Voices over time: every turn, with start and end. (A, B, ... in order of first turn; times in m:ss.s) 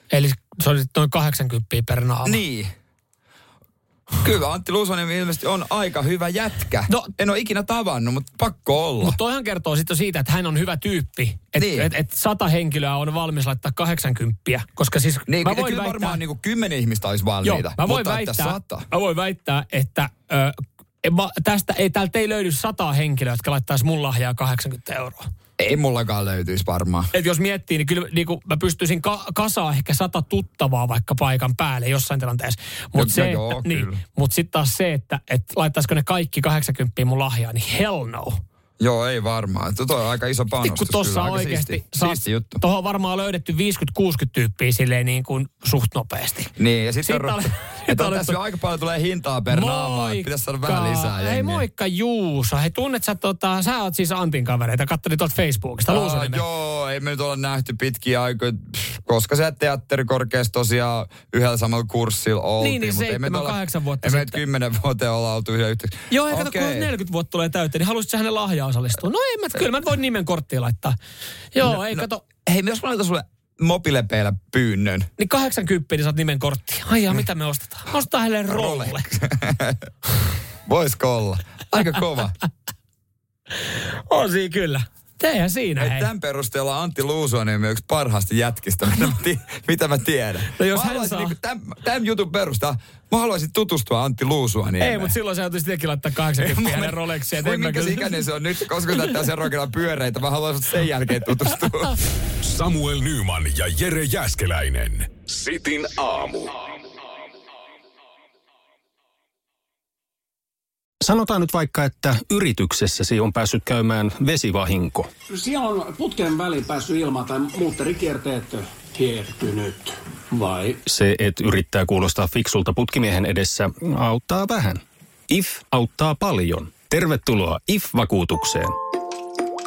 0:00.1-0:02.4 A
0:02.2-0:02.7 B
0:04.2-0:09.2 B
0:09.0-0:16.2 A
0:11.6-0:11.9 B
0:15.3-0:18.9 B
0:17.4-0:25.3 A
0:25.6-0:27.1 B
0:27.1-0:38.4 A
0:33.0-0:34.0 B
0:38.8-0:42.6 B
0:40.6-0:46.5 A
0:46.6-0:51.6 B
0:47.0-0:48.4 A
0:49.5-0:56.4 A
0:55.9-1:06.9 B
1:02.6-1:04.4 A
1:06.1-1:11.0 A
1:11.6-1:12.2 A
1:11.6-1:15.1 B
1:15.2-1:19.0 A
1:18.5-1:19.8 B
1:20.7-1:22.3 B
1:23.7-1:26.1 A
1:25.8-1:35.1 B
1:30.5-1:31.4 A
1:34.8-1:38.2 A
1:36.4-1:42.0 B
1:42.4-1:46.8 C
1:51.0-1:55.1 D
1:55.3-2:00.8 E
2:00.9-2:08.8 D